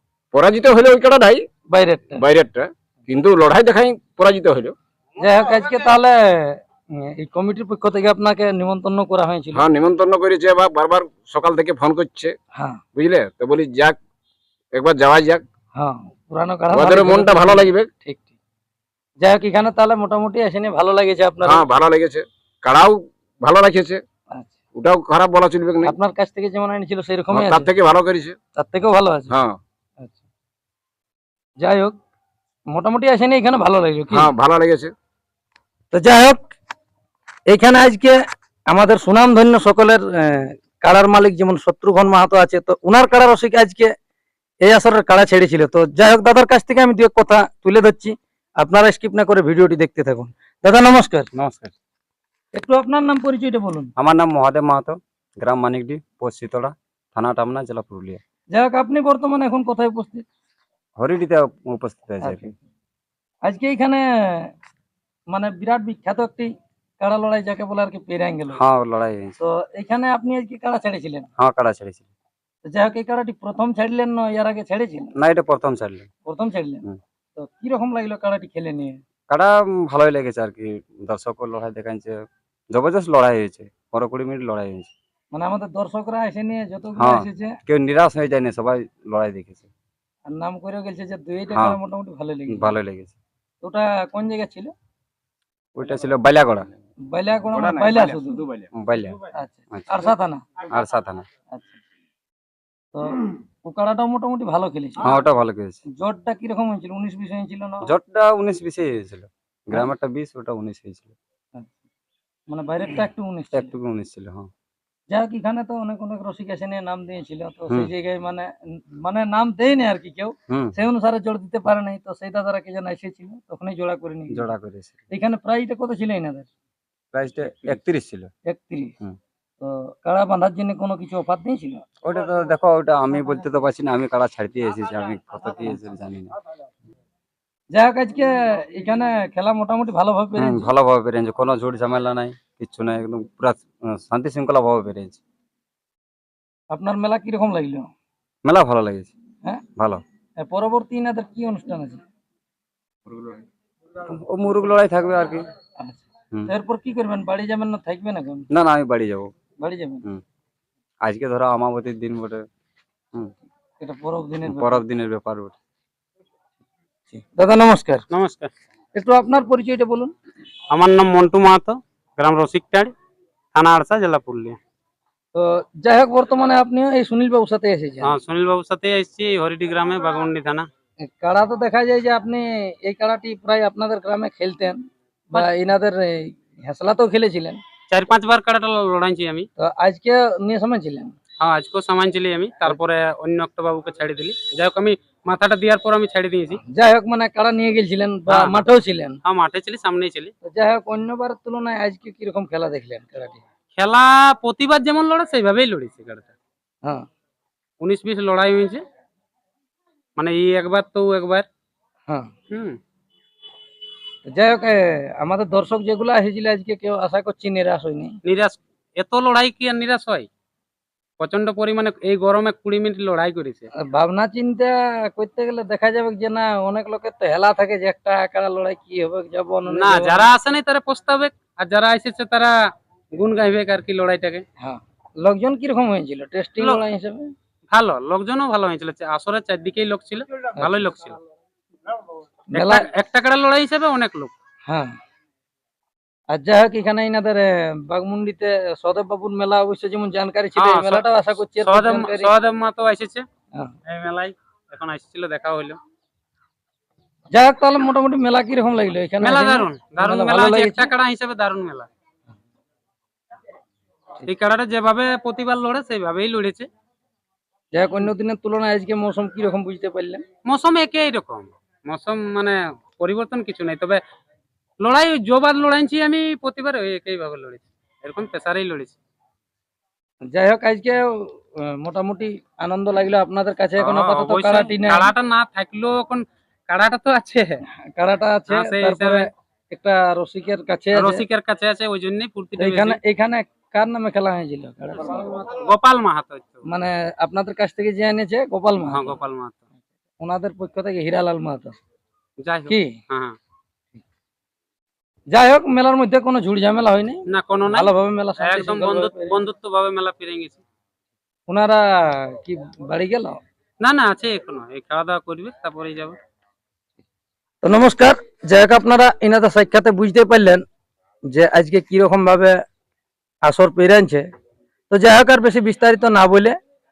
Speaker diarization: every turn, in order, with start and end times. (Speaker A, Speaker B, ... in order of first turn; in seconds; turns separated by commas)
Speaker A: 0.3-1.4, Speaker B: 1.7-2.2, Speaker A: 2.2-4.7, Speaker B: 5.2-9.6, Speaker A: 9.5-12.3, Speaker B: 12.5-12.8, Speaker A: 12.9-14.0, Speaker A: 14.7-15.4, Speaker B: 15.8-18.3, Speaker A: 16.7-17.9, Speaker B: 19.2-21.6, Speaker A: 21.4-24.0, Speaker A: 24.7-25.9, Speaker B: 25.8-27.7, Speaker A: 27.3-28.4, Speaker B: 28.6-29.3, Speaker A: 29.3-29.6, Speaker B: 31.6-31.9, Speaker B: 32.7-34.3, Speaker A: 34.1-34.9, Speaker B: 35.9-36.4, Speaker B: 37.5-43.9, Speaker B: 44.6-51.3, Speaker C: 51.3-51.7, Speaker B: 52.5-53.9, Speaker C: 54.0-58.2, Speaker B: 58.5-60.2, Speaker C: 61.0-62.5, Speaker B: 62.2-62.5, Speaker B: 63.4-64.5, Speaker B: 65.3-68.6, Speaker C: 68.5-69.4, Speaker B: 69.4-71.3, Speaker C: 71.4-72.1, Speaker B: 72.7-75.1, Speaker C: 75.2-76.1, Speaker B: 76.2-76.8, Speaker B: 77.3-79.0, Speaker C: 79.3-84.9, Speaker B: 85.3-87.5, Speaker C: 87.0-89.7, Speaker B: 90.3-92.7, Speaker C: 91.5-91.8, Speaker C: 92.5-93.2, Speaker B: 93.6-94.7, Speaker C: 95.7-96.7, Speaker B: 97.1-98.4, Speaker A: 97.5-98.7, Speaker C: 98.7-99.2, Speaker B: 99.3-100.4, Speaker C: 99.7-100.1, Speaker C: 100.7-101.3, Speaker B: 101.5-101.8, Speaker B: 102.9-105.2, Speaker C: 105.0-105.8, Speaker B: 106.0-107.9, Speaker C: 107.8-111.1, Speaker B: 112.5-113.7, Speaker C: 113.5-114.5, Speaker B: 115.1-124.5, Speaker C: 120.5-120.7, Speaker C: 124.3-125.0, Speaker B: 125.1-126.5, Speaker C: 127.1-128.3, Speaker B: 128.4-128.9, Speaker B: 129.6-131.8, Speaker C: 132.0-136.3, Speaker B: 137.7-140.7, Speaker C: 140.3-145.2, Speaker B: 146.7-147.9, Speaker C: 148.4-149.1, Speaker C: 149.8-150.0, Speaker B: 150.4-152.0, Speaker A: 153.1-153.4, Speaker C: 154.0-155.5, Speaker B: 155.8-158.5, Speaker C: 158.5-159.3, Speaker B: 159.6-160.1, Speaker C: 161.0-162.4, Speaker B: 163.8-164.8, Speaker C: 164.4-165.6, Speaker B: 167.1-168.0, Speaker D: 168.1-168.5, Speaker B: 168.9-170.1, Speaker D: 170.7-172.9, Speaker D: 173.5-174.6, Speaker B: 175.3-178.2, Speaker D: 178.0-180.7, Speaker B: 181.0-187.6, Speaker D: 187.9-189.5, Speaker B: 189.6-191.1, Speaker D: 191.4-196.6, Speaker B: 196.6-199.2, Speaker D: 198.3-198.6, Speaker D: 199.2-200.3, Speaker B: 200.4-203.4, Speaker D: 203.8-206.3, Speaker D: 207.8-208.8, Speaker D: 210.2-211.4, Speaker D: 212.5-212.8, Speaker B: 214.2-218.2, Speaker D: 218.2-220.3, Speaker D: 221.2-223.7, Speaker B: 223.8-230.3, Speaker D: 229.7-232.5, Speaker D: 233.1-234.4, Speaker B: 234.6-237.3, Speaker D: 237.7-241.2, Speaker B: 242.5-242.9, Speaker D: 242.5-244.3, Speaker B: 244.7-244.9, Speaker B: 246.3-252.3, Speaker D: 250.6-251.1, Speaker D: 251.6-253.2, Speaker D: 253.8-255.8, Speaker B: 257.3-260.9, Speaker D: 259.2-261.9, Speaker D: 264.2-266.7, Speaker B: 267.7-270.2, Speaker D: 270.4-274.0, Speaker D: 274.8-278.9, Speaker B: 280.2-285.1, Speaker D: 283.8-287.6, Speaker B: 287.7-291.2, Speaker D: 288.5-289.3, Speaker D: 290.9-293.0, Speaker B: 292.6-295.4, Speaker D: 295.2-296.6, Speaker B: 296.6-299.1, Speaker D: 298.8-299.6, Speaker B: 300.2-301.8, Speaker D: 302.4-303.4, Speaker B: 302.7-302.9, Speaker B: 305.3-309.4, Speaker D: 307.3-310.6, Speaker B: 311.5-313.4, Speaker D: 313.8-316.2, Speaker B: 317.6-320.6, Speaker B: 321.3-322.6, Speaker B: 323.4-324.2, Speaker B: 324.9-326.5